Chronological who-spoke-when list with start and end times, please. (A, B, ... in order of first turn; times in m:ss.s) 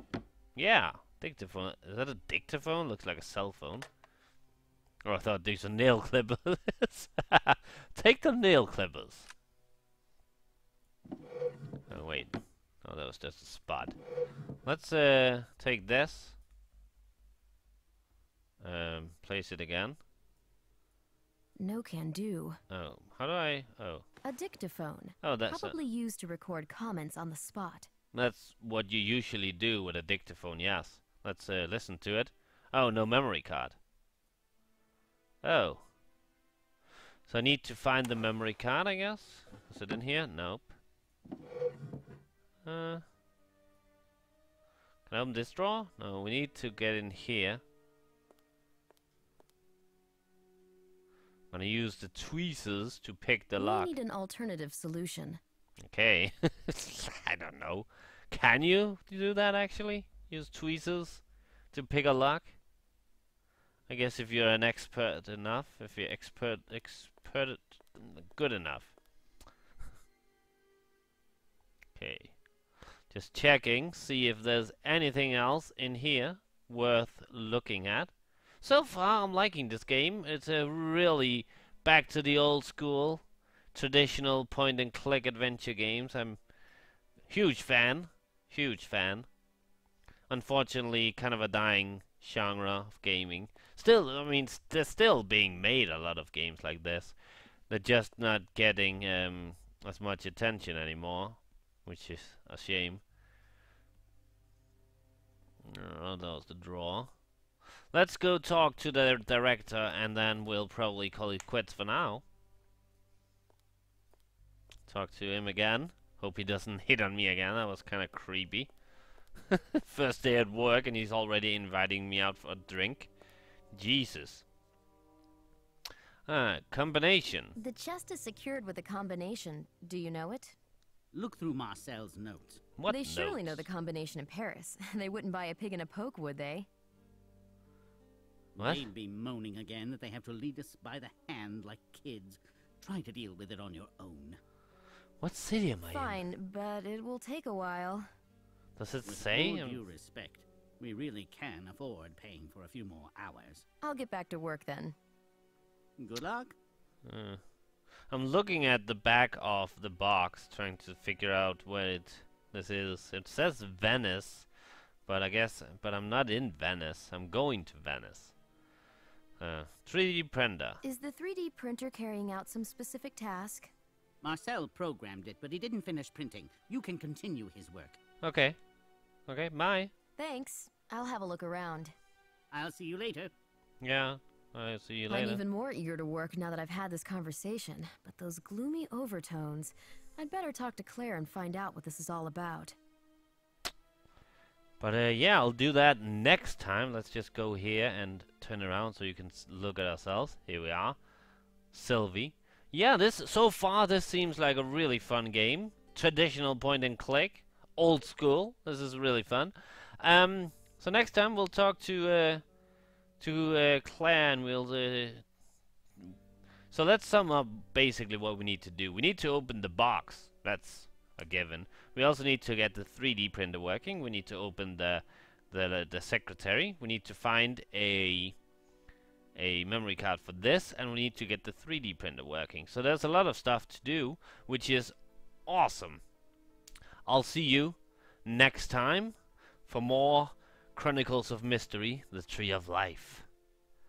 0:00.5-0:03.9 A
0:05.0-0:09.3 A
0:11.9-0:14.0 A
0:14.6-0:16.4 A
0:18.6-0:20.0 A
0:21.6-0:22.6 B
0:22.7-0:24.0 A
0:24.2-0:27.9 B
0:25.2-0:25.8 A
0:28.1-0:33.8 A
0:35.4-0:35.9 A
0:37.3-0:40.7 A
0:42.6-0:43.0 A
0:45.1-0:47.6 A
0:51.5-0:53.9 A
0:53.6-0:55.4 B
0:55.8-1:02.6 A
1:03.9-1:08.9 A
1:12.0-1:12.4 A
1:13.1-1:26.4 A
1:27.2-1:29.3 A
1:30.3-1:37.2 A
1:37.7-1:43.0 A
1:45.6-1:47.1 A
1:47.9-1:52.2 A
1:54.9-1:58.7 A
1:59.5-2:03.1 A
2:03.7-2:04.4 A
2:06.3-2:07.6 A
2:07.6-2:10.6 B
2:11.1-2:12.7 C
2:12.8-2:13.6 A
2:12.9-2:16.7 B
2:18.5-2:24.4 C
2:18.6-2:18.9 A
2:25.2-2:26.2 A
2:25.9-2:28.1 B
2:28.8-2:29.8 A
2:29.0-2:33.6 C
2:33.8-2:34.9 B
2:36.0-2:36.5 C
2:37.0-2:37.4 A
2:38.1-2:44.5 A
2:45.0-2:48.3 A
2:49.4-2:50.8 A
2:50.8-2:53.7 B
2:54.2-2:58.0 C
2:58.2-2:58.6 A
2:59.3-2:59.9 A
3:00.2-3:01.9 B
3:02.5-3:03.3 C
3:03.8-3:05.4 A
3:05.1-3:12.8 B
3:14.8-3:21.0 A
3:21.7-3:32.4 A
3:33.2-3:35.2 A
3:36.7-3:48.4 A
3:49.3-3:54.9 A
3:55.4-3:56.0 A
3:57.0-4:03.3 A